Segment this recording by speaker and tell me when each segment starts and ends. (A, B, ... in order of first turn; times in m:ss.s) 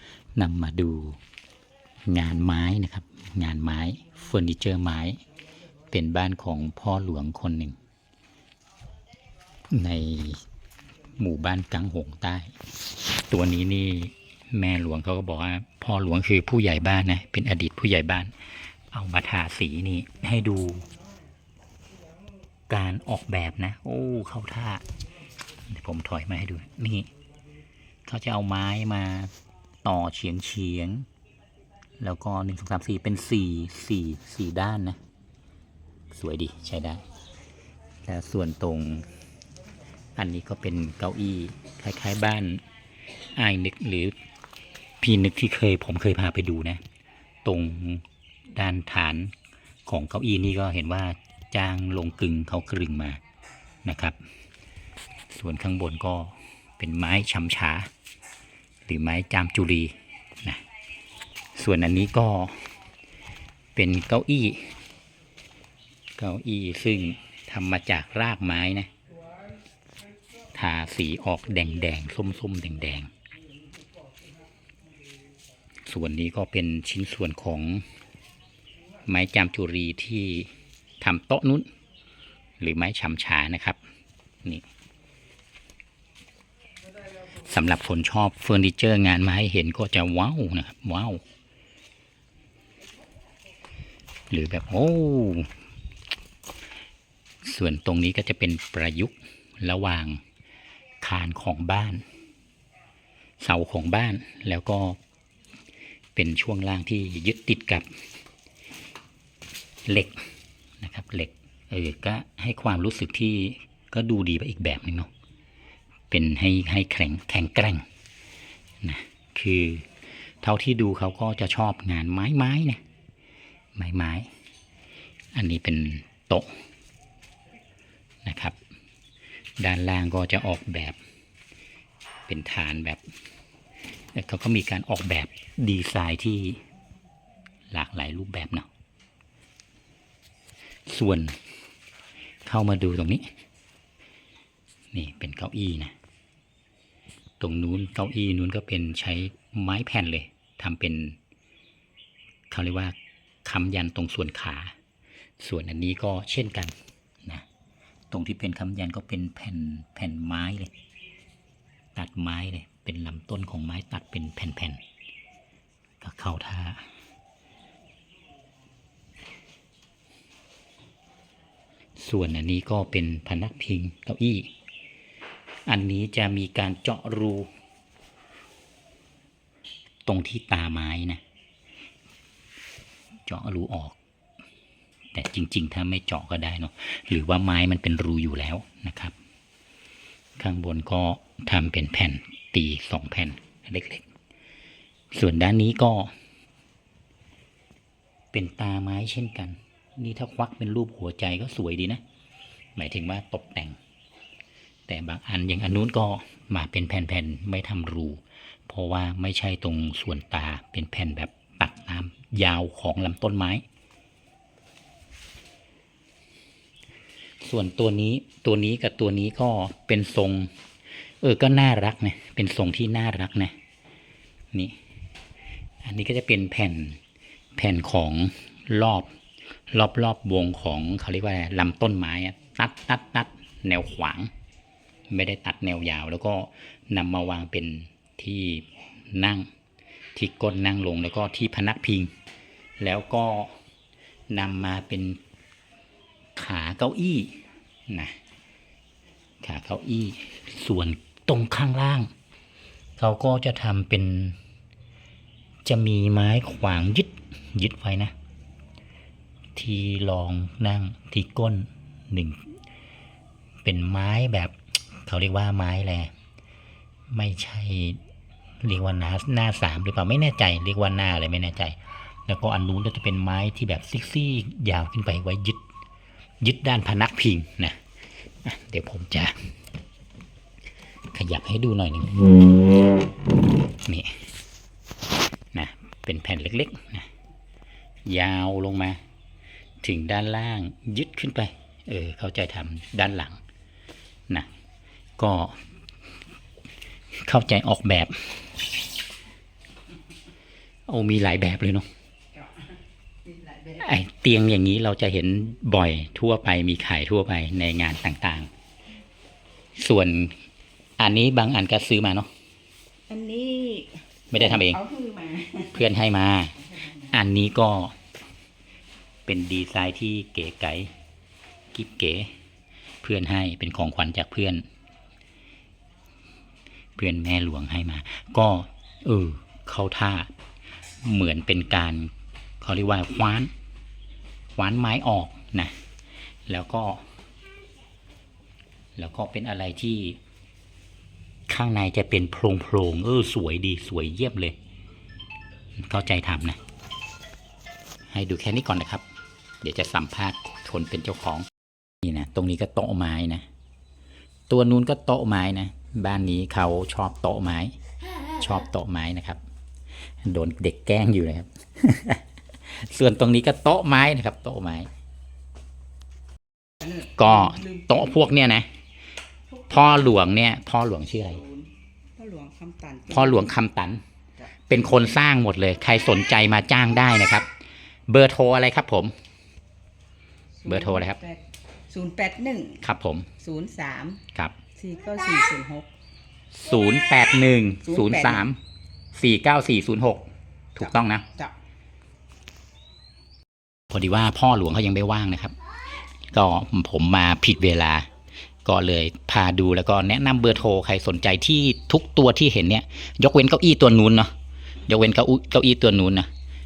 0:00.4-0:01.2 A
0:02.1-0:05.2 A
0:05.9-0:07.8 A
0:09.7-0:10.4 A
0:11.2-0:12.6 A
0:13.2-0:18.3 A
0:18.9-0:20.9 A
0:22.7-0:24.8 A
0:25.7-0:27.1 A
0:28.1-0:29.3 A
0:29.8-0:31.1 A
0:32.0-0:35.0 A
0:36.1-0:37.0 A
0:38.0-0:39.1 A
0:40.2-0:42.6 A
0:43.3-0:44.2 A
0:45.0-0:46.8 A
0:47.4-0:49.3 A
0:49.9-0:53.2 A
0:53.8-0:54.2 A
0:55.3-0:57.9 A
0:58.9-1:00.6 A
1:01.5-1:02.7 A
1:03.7-1:04.8 A
1:06.2-1:08.9 A
1:10.5-1:13.1 A
1:15.8-1:17.8 A
1:19.1-1:21.7 A
1:22.6-1:23.8 A
1:27.4-1:31.2 A
1:34.3-1:35.5 A
1:37.4-1:40.2 A
1:41.0-1:42.0 A
1:43.4-1:45.0 A
1:46.1-1:47.9 A
1:49.8-1:50.2 A
1:50.8-1:55.1 A
1:56.1-1:57.8 A
1:58.8-1:59.9 A
2:00.4-2:02.8 A
2:03.8-2:04.3 A
2:05.3-2:06.5 A
2:08.2-2:08.6 A
2:09.6-2:11.0 A
2:12.3-2:13.0 A
2:14.1-2:16.6 A
2:17.7-2:18.7 A
2:20.9-2:21.4 A
2:22.4-2:23.3 A
2:24.9-2:25.9 A
2:27.4-2:31.2 A
2:32.5-2:34.8 A
2:35.4-2:36.7 A
2:38.1-2:40.7 A
2:41.9-2:44.8 A
2:46.0-2:46.8 A
2:52.0-2:54.5 A
2:55.7-2:57.5 A
3:00.1-3:01.2 A
3:03.2-3:04.0 A
3:05.1-3:09.1 A
3:10.4-3:14.1 A
3:15.1-3:16.1 A
3:18.3-3:22.0 A
3:22.8-3:23.8 A
3:24.9-3:33.6 A
3:37.4-3:40.5 A
3:41.2-3:43.6 A
3:45.8-3:47.0 A
3:47.6-3:49.1 A
3:49.7-3:54.3 A
3:55.1-3:59.5 A
4:00.1-4:02.1 A
4:02.8-4:03.5 A
4:04.3-4:05.2 A
4:06.4-4:08.2 A
4:09.4-4:12.1 A
4:13.0-4:14.4 A
4:15.6-4:18.1 A
4:19.6-4:22.4 A
4:23.6-4:26.1 A
4:27.1-4:28.0 A
4:28.6-4:35.6 A
4:36.4-4:37.8 A
4:38.4-4:39.4 A
4:41.1-4:42.4 A
4:43.8-4:44.2 A
4:45.5-4:47.1 A
4:48.1-4:49.0 A
4:49.8-4:53.4 A
4:55.2-4:55.6 A
4:57.2-4:58.4 A
5:00.9-5:01.9 A
5:03.3-5:03.8 B
5:03.8-5:08.5 A
5:09.8-5:10.4 A
5:11.0-5:12.3 A
5:13.1-5:15.8 B
5:14.3-5:14.8 A
5:15.7-5:18.0 A
5:19.2-5:20.9 A
5:21.7-5:22.3 A
5:23.0-5:24.6 A
5:27.0-5:30.3 A
5:31.0-5:33.5 A
5:34.6-5:35.8 A
5:36.5-5:37.1 A
5:39.0-5:40.2 A
5:41.5-5:44.6 A
5:45.8-5:46.6 A
5:48.1-5:49.0 A
5:49.6-5:51.5 A
5:52.0-5:53.4 A
5:54.5-5:57.8 A
5:58.3-5:59.4 A
6:00.2-6:04.9 A
6:06.8-6:07.7 B
6:07.0-6:08.7 A
6:09.7-6:11.4 A
6:11.4-6:13.5 B
6:13.1-6:14.0 A
6:14.7-6:17.5 A
6:18.1-6:19.1 A
6:20.6-6:22.8 B
6:20.6-6:21.2 A
6:22.8-6:23.3 A
6:23.4-6:24.2 B
6:24.8-6:25.9 B
6:26.6-6:28.6 A
6:27.9-6:28.4 B
6:29.1-6:31.3 A
6:33.9-6:35.5 A
6:36.3-6:38.1 A
6:38.6-6:44.3 A
6:44.9-6:46.3 A